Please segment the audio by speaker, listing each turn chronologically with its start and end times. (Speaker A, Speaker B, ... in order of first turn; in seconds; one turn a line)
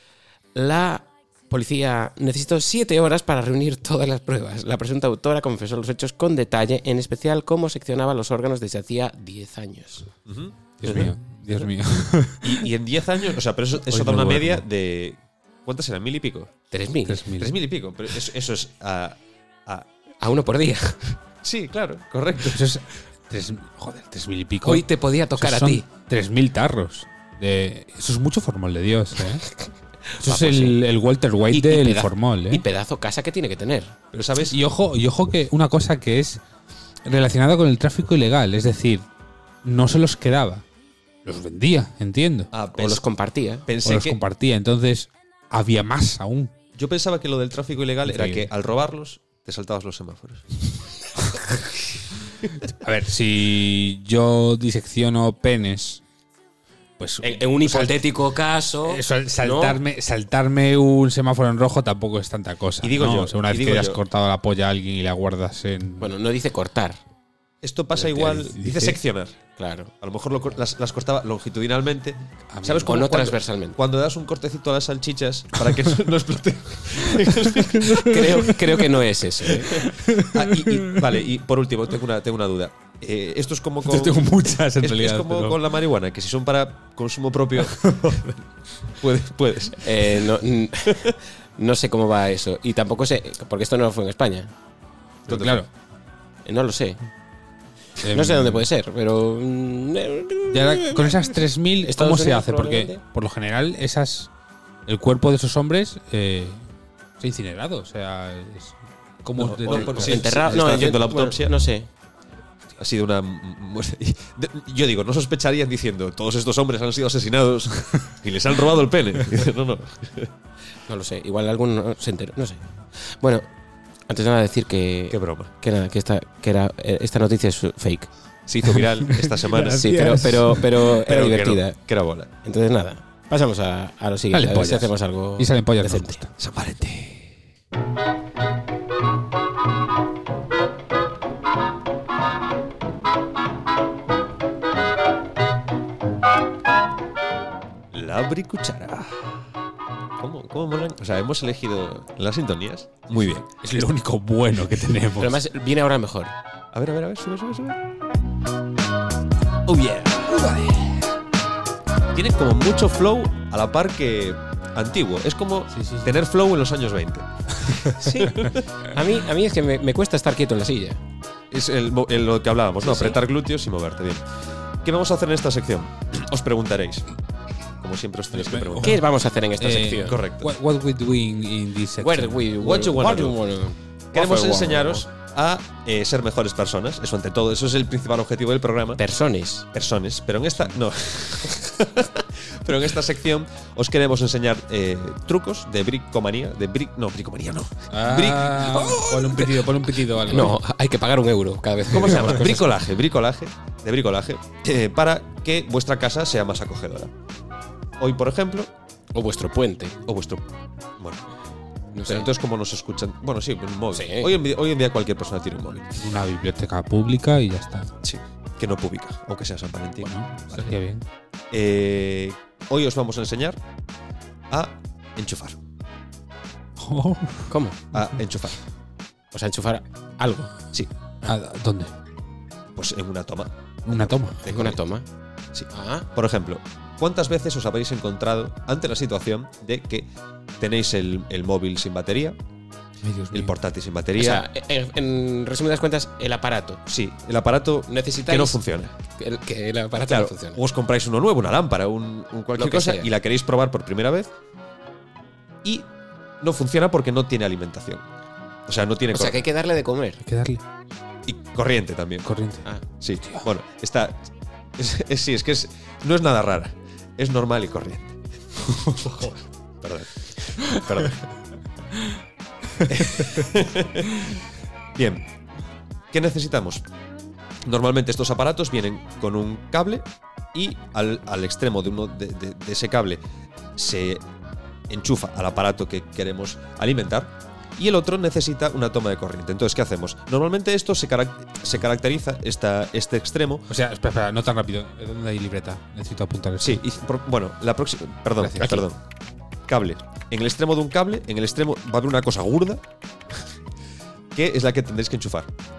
Speaker A: 0.6-10.1
Speaker B: 10.3-11.1
Speaker C: 10.8-12.7
Speaker B: 12.4-16.5
Speaker C: 13.8-14.6
Speaker A: 16.7-17.2
Speaker C: 17.1-17.6
Speaker B: 17.3-19.9
Speaker A: 20.2-21.1
Speaker B: 21.4-22.7
Speaker C: 22.4-29.5
Speaker A: 24.6-25.9
Speaker A: 30.2-30.8
Speaker C: 30.2-32.6
Speaker A: 31.5-34.0
Speaker B: 34.1-34.6
Speaker C: 34.5-36.4
Speaker C: 37.1-39.1
Speaker C: 39.6-40.6
Speaker C: 41.2-42.5
Speaker B: 42.5-43.0
Speaker A: 42.7-43.7
Speaker B: 43.7-44.2
Speaker C: 43.8-46.5
Speaker B: 46.8-50.5
Speaker C: 48.0-48.5
Speaker C: 52.6-56.0
Speaker C: 57.0-58.0
Speaker A: 57.2-59.8
Speaker C: 58.9-66.1
Speaker B: 62.8-64.0
Speaker A: 66.0-67.0
Speaker B: 67.6-69.4
Speaker C: 68.0-69.0
Speaker A: 69.6-69.9
Speaker B: 70.0-78.3
Speaker C: 72.5-73.0
Speaker A: 72.8-73.8
Speaker C: 77.1-78.8
Speaker A: 77.9-79.8
Speaker C: 79.7-81.2
Speaker B: 79.7-88.3
Speaker C: 83.9-85.6
Speaker C: 87.7-88.3
Speaker B: 88.9-91.2
Speaker A: 89.8-94.5
Speaker B: 95.3-95.6
Speaker C: 95.3-95.7
Speaker A: 96.5-97.0
Speaker C: 98.0-98.7
Speaker A: 98.1-101.3
Speaker C: 100.5-104.3
Speaker A: 101.8-103.0
Speaker C: 104.9-106.6
Speaker C: 107.2-110.9
Speaker B: 109.4-111.5
Speaker A: 109.7-111.9
Speaker B: 112.8-120.3
Speaker A: 120.9-123.5
Speaker A: 124.1-128.1
Speaker B: 125.1-125.5
Speaker B: 128.5-130.2
Speaker C: 128.7-130.8
Speaker A: 129.5-131.8
Speaker B: 130.9-132.3
Speaker A: 132.4-136.2
Speaker C: 134.3-136.3
Speaker B: 136.4-137.3
Speaker B: 147.9-149.5
Speaker B: 150.2-153.5
Speaker C: 153.6-155.4
Speaker A: 155.2-156.3
Speaker B: 156.7-157.8
Speaker B: 159.7-160.6
Speaker B: 162.1-168.7
Speaker C: 165.7-166.2
Speaker A: 167.9-171.0
Speaker B: 171.5-174.2
Speaker A: 172.8-173.2
Speaker B: 174.8-177.1
Speaker B: 177.8-179.0
Speaker C: 178.4-179.1
Speaker A: 178.8-180.2
Speaker C: 179.6-182.5
Speaker B: 180.0-180.5
Speaker A: 182.0-185.1
Speaker B: 182.6-183.4
Speaker B: 184.1-189.0
Speaker A: 189.0-189.7
Speaker B: 189.7-199.8
Speaker C: 197.9-200.6
Speaker A: 200.3-202.7
Speaker B: 201.9-207.1
Speaker B: 208.0-208.7
Speaker A: 209.2-210.0
Speaker B: 210.1-210.4
Speaker A: 211.9-212.3
Speaker B: 212.1-215.9
Speaker A: 213.9-214.3
Speaker C: 215.9-217.9
Speaker B: 218.0-220.8
Speaker C: 220.0-221.1
Speaker B: 221.5-223.6
Speaker B: 224.5-225.6
Speaker C: 226.8-228.1
Speaker A: 227.5-227.8
Speaker B: 227.9-228.6
Speaker A: 229.3-230.5
Speaker C: 231.2-231.9
Speaker B: 232.8-234.8
Speaker C: 233.9-234.5
Speaker A: 234.4-235.1
Speaker B: 235.5-242.4
Speaker A: 235.7-236.1
Speaker C: 243.0-243.5
Speaker B: 243.3-244.5
Speaker A: 244.2-246.8
Speaker B: 246.9-248.9
Speaker A: 247.9-250.6
Speaker B: 250.1-254.3
Speaker A: 252.6-253.1
Speaker B: 255.6-255.9
Speaker B: 256.4-258.0
Speaker B: 258.7-259.4
Speaker A: 259.1-260.2
Speaker C: 260.2-260.6
Speaker B: 261.3-262.3
Speaker C: 262.3-262.6
Speaker B: 263.0-271.2
Speaker B: 272.8-274.4
Speaker B: 274.9-275.3
Speaker B: 276.1-276.9
Speaker B: 277.6-283.2
Speaker B: 283.8-284.2
Speaker B: 284.9-293.7
Speaker C: 293.7-296.8
Speaker B: 296.6-299.0
Speaker C: 298.4-298.9
Speaker B: 299.7-302.9
Speaker B: 304.3-305.5